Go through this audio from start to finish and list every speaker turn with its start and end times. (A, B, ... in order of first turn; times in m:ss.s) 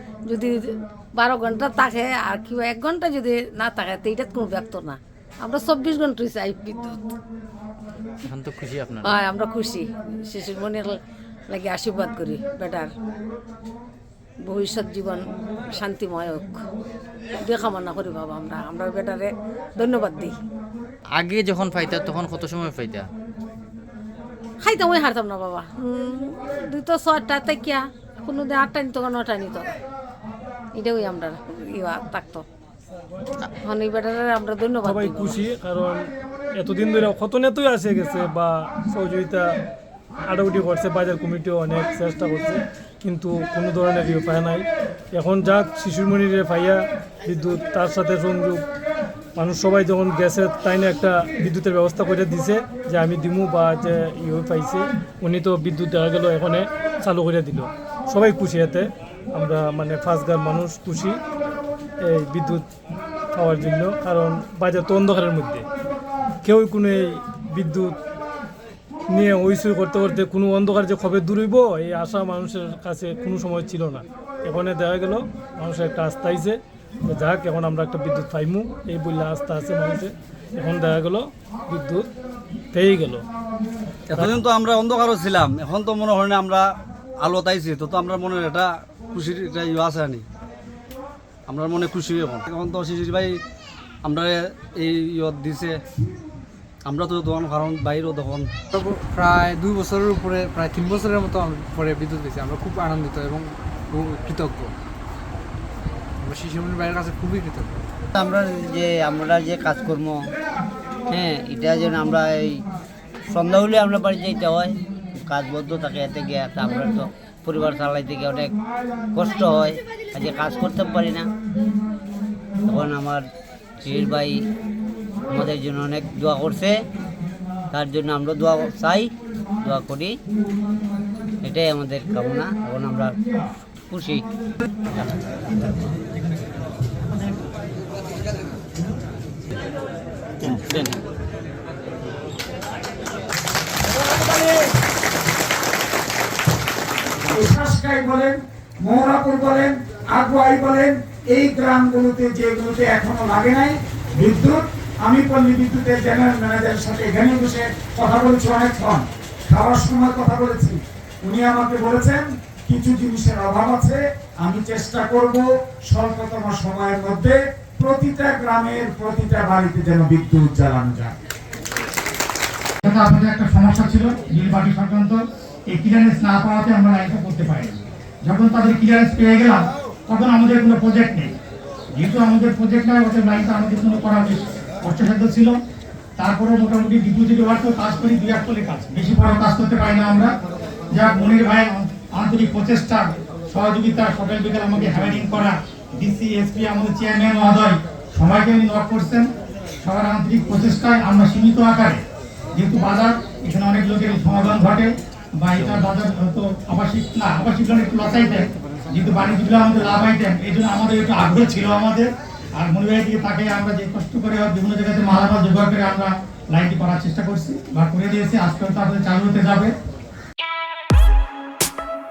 0:00.3-0:07.0 A
0:08.3-0:09.1 B
0:09.0-0:12.9 A
0:14.4-0:16.6 A
0:17.4-0:20.4 A
0:21.2-0:23.1 B
0:24.6-0:29.7 A
0:30.8-0:32.4 A
0:33.6-0:35.4 A
0:34.8-0:36.0 C
0:36.6-0:39.4 C
0:40.3-0:44.6 C
0:45.2-0:48.6 C
0:49.4-1:01.2 C
1:02.1-1:02.6 C
1:03.4-1:05.6 C
1:06.4-1:07.9 C
1:09.1-1:22.0 C
1:22.7-1:23.2 C
1:24.1-1:26.7 D
1:27.2-1:30.2 D
1:31.5-1:33.4 D
1:34.0-1:35.8 D
1:36.8-1:38.5 D
1:38.7-1:44.7 E
1:46.2-1:47.8 E
1:48.1-1:50.2 F
1:51.1-1:52.5 F
1:53.3-1:54.7 F
1:55.2-1:58.5 F
1:59.1-2:01.3 F
2:02.7-2:03.2 F
2:03.8-2:04.3 F
2:05.3-2:06.8 F
2:07.7-2:09.1 F
2:09.6-2:10.2 F
2:11.4-2:13.1 F
2:13.9-2:14.2 F
2:27.3-2:51.1 G
2:52.8-3:01.3 H
3:02.0-3:05.6 H
3:06.2-3:10.3 H
3:10.9-3:19.3 H
3:19.8-3:22.0 H
3:22.5-3:39.7 H